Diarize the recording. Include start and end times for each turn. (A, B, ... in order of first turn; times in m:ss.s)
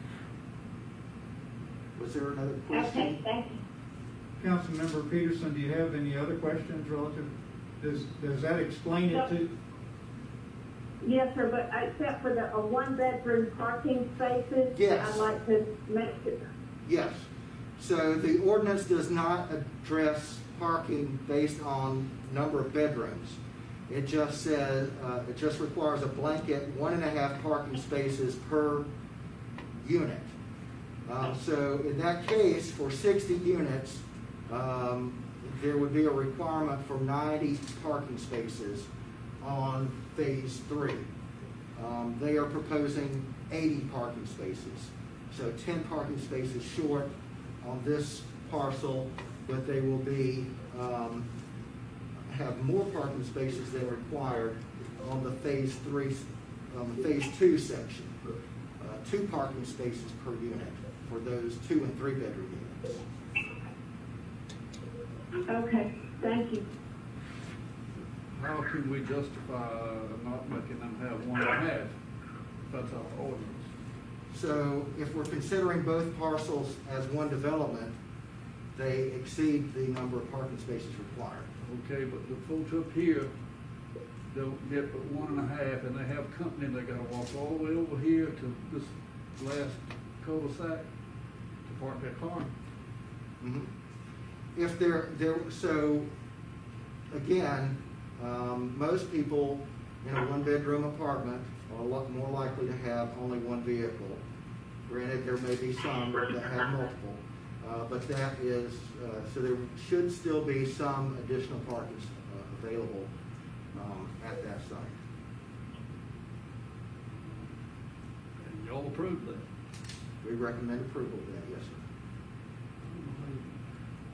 0:02.0-0:03.2 A
0:02.7-0:03.6 B
0:04.4-0:09.5 C
0:11.0-0:16.4 B
0:14.7-0:15.3 A
0:16.9-0:23.4 A
0:23.9-0:28.9 A
0:29.8-0:30.3 A
0:31.1-0:38.9 A
0:39.4-0:41.1 A
0:41.8-0:51.3 A
0:52.3-0:58.1 A
0:58.8-1:03.0 A
1:05.5-1:06.7 B
1:08.3-1:11.9 D
1:12.7-1:13.7 D
1:14.3-1:18.0 A
1:18.8-1:21.5 A
1:21.6-1:23.3 D
1:24.3-1:30.9 D
1:31.7-1:32.5 D
1:33.4-1:33.7 A
1:34.6-1:36.1 A
1:37.1-1:44.2 A
1:44.9-1:53.1 A
1:53.7-1:55.0 A
1:58.4-1:59.5 D
2:00.2-2:01.8 A
2:02.8-2:03.5 D